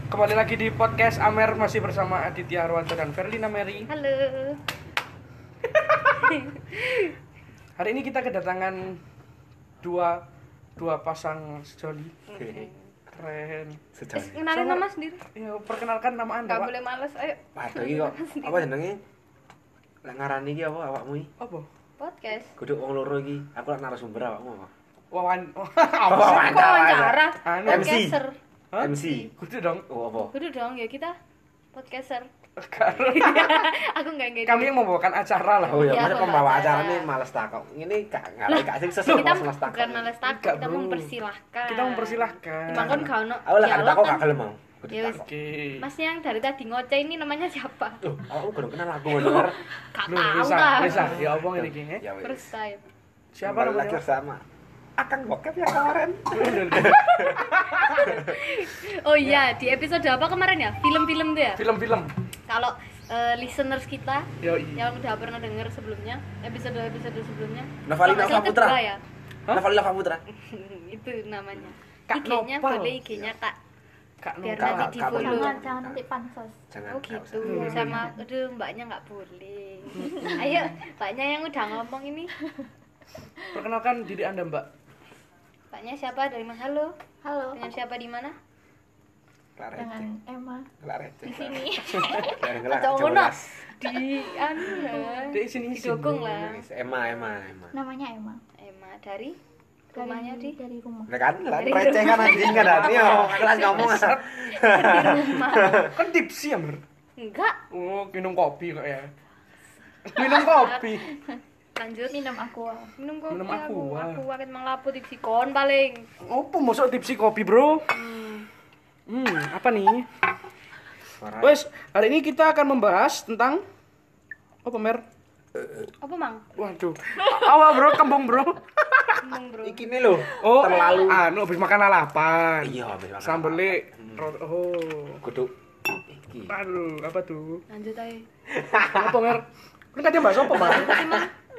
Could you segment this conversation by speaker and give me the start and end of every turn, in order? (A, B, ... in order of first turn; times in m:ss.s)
0:00.1-0:03.9 A
0:03.9-0:04.6 B
0:06.0-0:07.1 B
0:07.8-0:09.0 A
0:09.8-0:10.2 A
0:10.8-0:12.2 A
0:12.3-0:12.8 B
0:13.1-0:13.8 A
0:13.9-0:14.4 C
0:14.1-0:15.2 B
0:14.5-0:16.7 A
0:16.5-0:18.7 B
0:17.5-0:19.0 C
0:20.0-0:21.3 C
0:21.4-0:21.7 A
0:22.0-0:22.5 B
0:22.6-0:24.7 C
0:25.1-0:26.6 A
0:26.1-0:28.2 C
0:26.2-0:28.4 B
0:27.4-0:28.0 A
0:28.7-0:29.8 A
0:28.8-0:29.3 C
0:29.9-0:30.3 C
0:30.3-0:31.2 B
0:31.7-0:32.3 B
0:32.6-0:33.8 A
0:32.8-0:33.1 C
0:33.1-0:34.7 B
0:34.4-0:36.2 A
0:35.6-0:40.1 C
0:35.7-0:37.1 B
0:38.5-0:44.2 B
0:39.0-0:39.4 A
0:40.3-0:43.1 A
0:42.8-0:45.3 C
0:44.9-0:45.2 B
0:45.1-0:45.9 A
0:45.8-0:48.0 B
0:48.0-0:49.6 C
0:49.1-0:51.2 B
0:50.0-0:52.0 A
0:50.9-0:52.4 C
0:52.2-0:52.8 B
0:53.3-0:54.0 A
0:53.4-0:58.4 C
0:56.3-0:57.2 A
0:56.7-1:01.6 B
1:01.6-1:02.1 A
1:02.5-1:09.0 B
1:04.4-1:04.8 A
1:07.8-1:08.8 C
1:09.5-1:10.2 C
1:10.3-1:13.6 B
1:12.1-1:13.0 A
1:14.2-1:15.0 A
1:14.4-1:15.6 B
1:14.6-1:16.0 C
1:15.0-1:16.6 D
1:16.7-1:17.8 C
1:16.9-1:22.3 B
1:17.4-1:18.1 A
1:17.6-1:18.2 D
1:19.9-1:20.8 A
1:20.0-1:20.4 D
1:23.4-1:23.6 D
1:23.5-1:24.7 A
1:25.7-1:26.9 B
1:27.2-1:27.7 D
1:27.5-1:28.4 B
1:29.6-1:30.1 C
1:29.8-1:30.7 D
1:30.8-1:33.4 C
1:31.2-1:32.5 D
1:32.6-1:36.6 B
1:33.9-1:35.3 D
1:35.3-1:36.4 A
1:36.4-1:37.7 C
1:37.7-1:38.4 D
1:38.6-1:39.4 B
1:39.9-1:40.6 B
1:39.9-1:41.2 D
1:41.1-1:46.0 C
1:41.6-1:43.9 B
1:42.0-1:44.2 A
1:44.5-1:45.9 B
1:45.6-1:46.8 A
1:47.2-1:47.6 B
1:47.7-1:49.1 A
1:50.0-1:51.1 A
1:50.2-1:51.0 B
1:51.8-1:52.2 B
1:52.1-1:52.9 D
1:53.0-1:56.1 B
1:53.3-1:54.2 A
1:56.2-1:57.9 A
1:57.9-1:58.5 B
1:59.1-2:00.1 A
2:01.2-2:01.6 C
2:01.4-2:03.6 A
2:04.6-2:05.0 A
2:06.0-2:06.4 B
2:06.6-2:09.2 A
2:09.2-2:09.9 B
2:09.6-2:11.2 C
2:10.4-2:15.2 A
2:10.7-2:11.1 B
2:12.6-2:14.3 C
2:15.2-2:16.6 C
2:16.5-2:17.6 A
2:17.7-2:18.2 B
2:18.5-2:19.2 C
2:18.8-2:21.0 A
2:20.5-2:21.3 B
2:20.7-2:21.2 C